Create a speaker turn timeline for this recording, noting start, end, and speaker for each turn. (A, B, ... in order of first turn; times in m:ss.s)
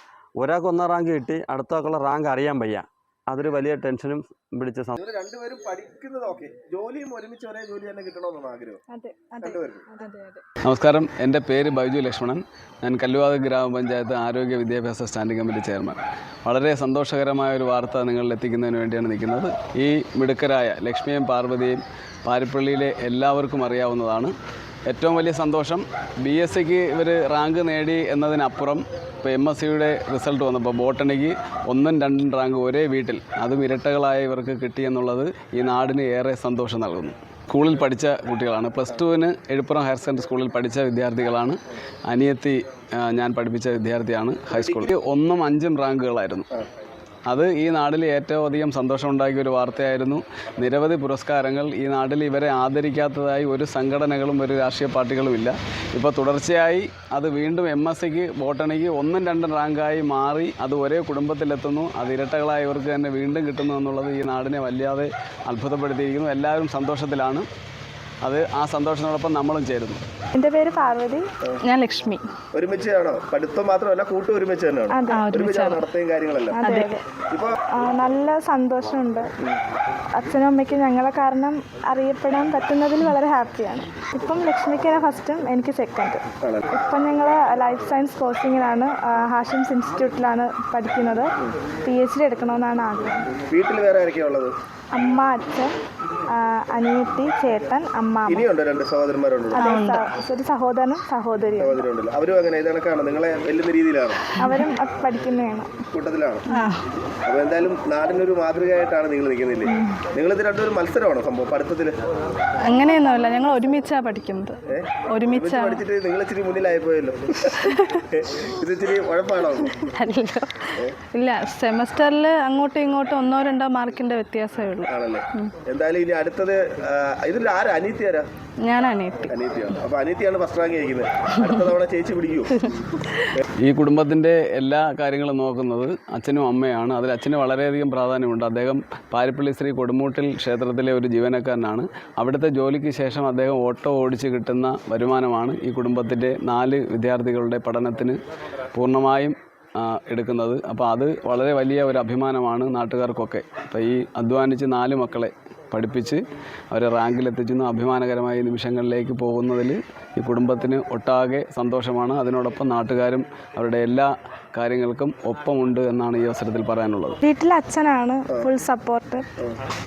0:00.4-0:05.0 A
0:05.0-0:08.8 B
0:08.9-0:10.4 C
0:09.4-0:09.9 B
0:10.6-0:24.3 D
0:24.9-0:41.6 D
0:42.1-0:46.4 D
0:44.5-0:44.9 B
0:47.3-1:07.5 D
1:08.2-1:10.0 D
1:10.3-1:11.2 C
1:11.7-1:12.2 E
1:12.5-1:16.6 B
1:14.9-1:15.2 C
1:15.2-1:15.8 E
1:16.5-1:17.0 C
1:17.3-1:17.6 B
1:17.7-1:19.3 C
1:20.2-1:31.3 C
1:31.8-1:33.2 C
1:33.5-1:34.6 B
1:34.9-1:35.7 C
1:36.3-1:38.4 C
1:38.3-1:39.6 B
1:39.6-1:41.8 C
1:39.6-1:40.0 E
1:41.6-1:44.3 B
1:44.4-1:45.7 C
1:45.9-1:46.4 B
1:47.3-1:52.0 B
1:52.6-1:54.6 E
1:54.7-1:59.8 B
1:55.1-1:55.8 E
1:59.9-2:05.5 E
2:04.9-2:08.3 B
2:08.6-2:09.2 E
2:09.2-2:12.7 B
2:13.6-2:28.2 D
2:28.7-2:47.2 D
2:47.2-2:49.2 C